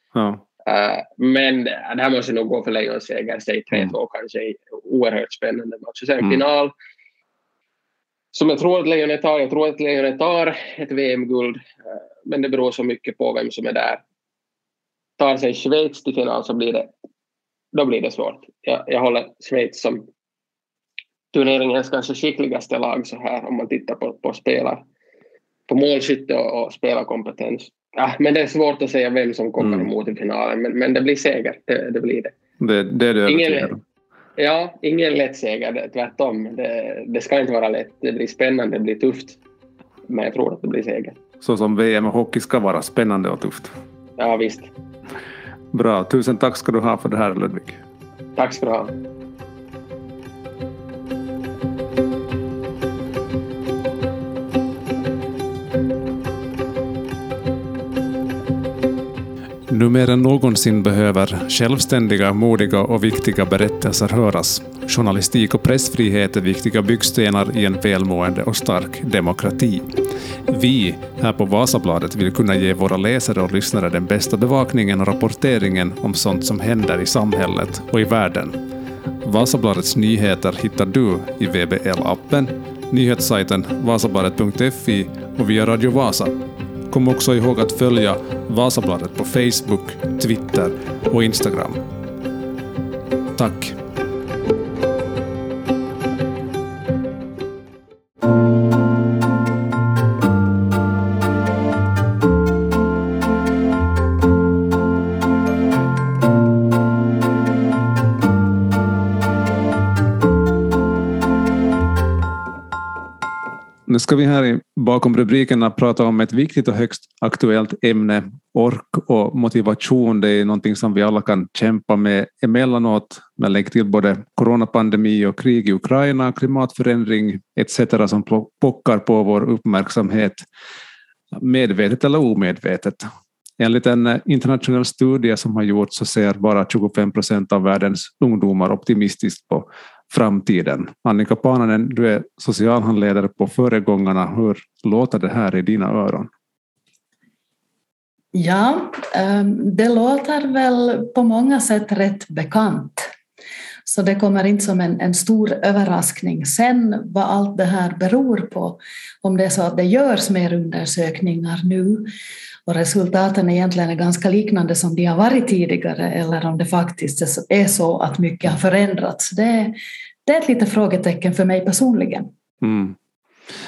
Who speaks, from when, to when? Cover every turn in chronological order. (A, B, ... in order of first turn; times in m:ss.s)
0:00.2-0:00.4 A
0:00.6-0:06.7 B
0:08.3-0:14.0 B
0:15.2-0:16.9 B
0:17.7-0:20.1 B
0:21.3-0:24.8 B
0:25.7-0:32.3 B
0:29.6-0:29.9 A
0:32.6-0:33.8 A
0:33.3-0:33.7 B
0:34.4-0:39.4 B
0:40.1-0:41.2 B
0:41.4-0:43.7 A
0:44.2-0:44.7 B
0:45.7-0:47.8 A
0:48.4-0:48.9 B
0:59.7-1:09.9 A
1:10.5-1:18.6 A
1:19.2-1:26.4 A
1:26.9-1:31.8 A
1:33.4-1:33.8 A
1:53.9-2:10.4 A
2:11.3-2:13.1 A
2:13.6-2:26.3 A
2:28.3-2:33.1 C
2:33.8-2:42.1 C
2:42.7-2:52.3 C
2:52.6-2:53.0 A